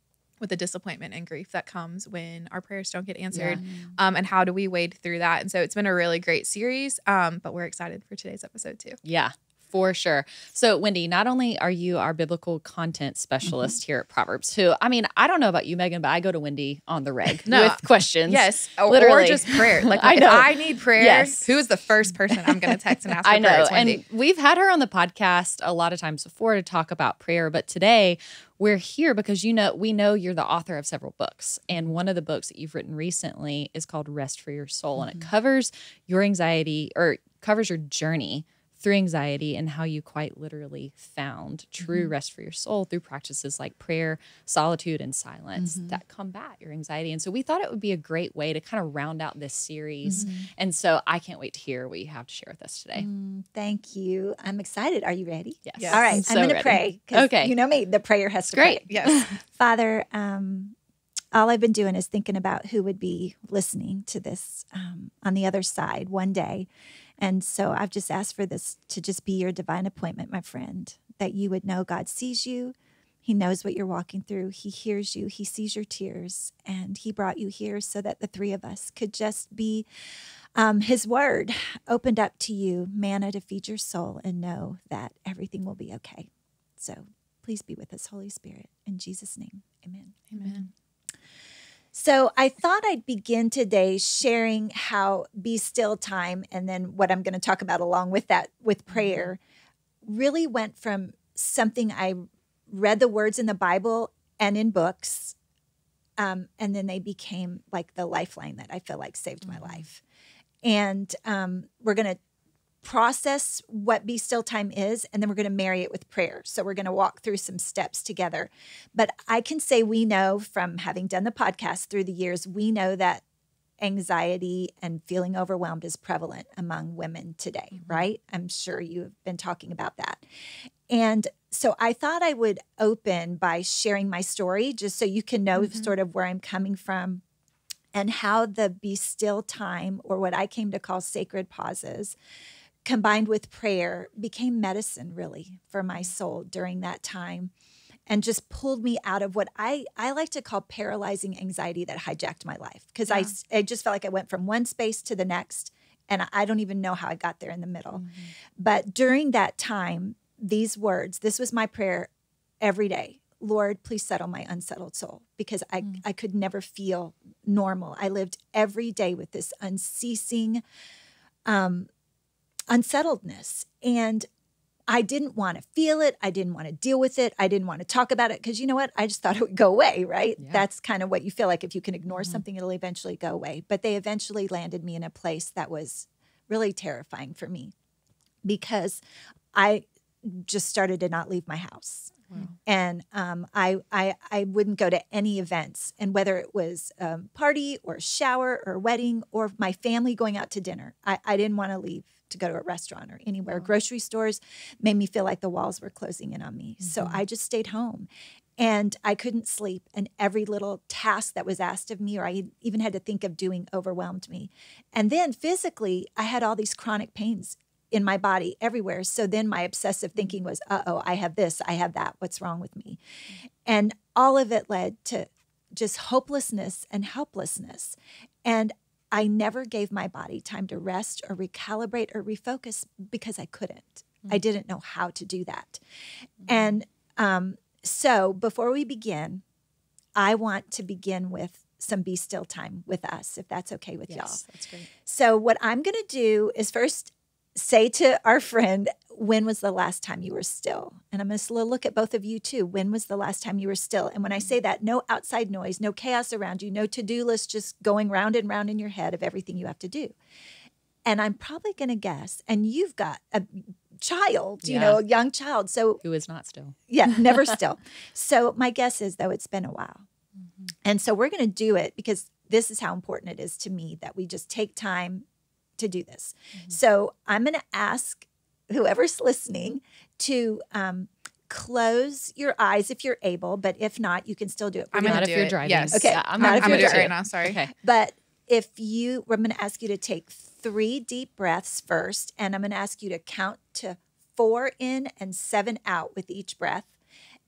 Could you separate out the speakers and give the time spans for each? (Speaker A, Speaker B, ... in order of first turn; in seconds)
Speaker A: 0.4-9.0, 17.5-24.0, 55.8-56.0, 58.9-59.3, 90.3-90.7, 135.6-135.9, 284.9-287.6
Speaker B: 3.3-3.9, 9.0-21.5, 23.2-53.1, 55.7-57.5, 58.5-59.3, 127.8-128.1, 157.9-158.3, 180.4-180.6, 206.8-207.2, 244.1-244.9, 264.6-265.0, 266.0-267.5, 285.0-287.7
Speaker C: 41.8-42.1, 45.6-46.0, 50.0-50.5, 53.0-60.8, 61.3-66.7, 67.2-79.9, 80.5-90.5, 91.9-99.4, 100.0-105.4, 106.2-110.0, 110.6-112.2, 112.8-123.2, 123.8-130.2, 130.9-137.2, 137.9-142.2, 142.8-147.5, 148.1-170.6, 171.4-171.9, 172.7-174.3, 174.9-187.7, 188.4-189.0, 189.5-223.0, 223.7-235.8, 236.4-239.4, 240.2-244.4, 245.0-260.1, 261.1-266.0, 266.9-270.1, 270.9-275.3, 275.8-285.4, 285.9-287.2, 287.7-296.9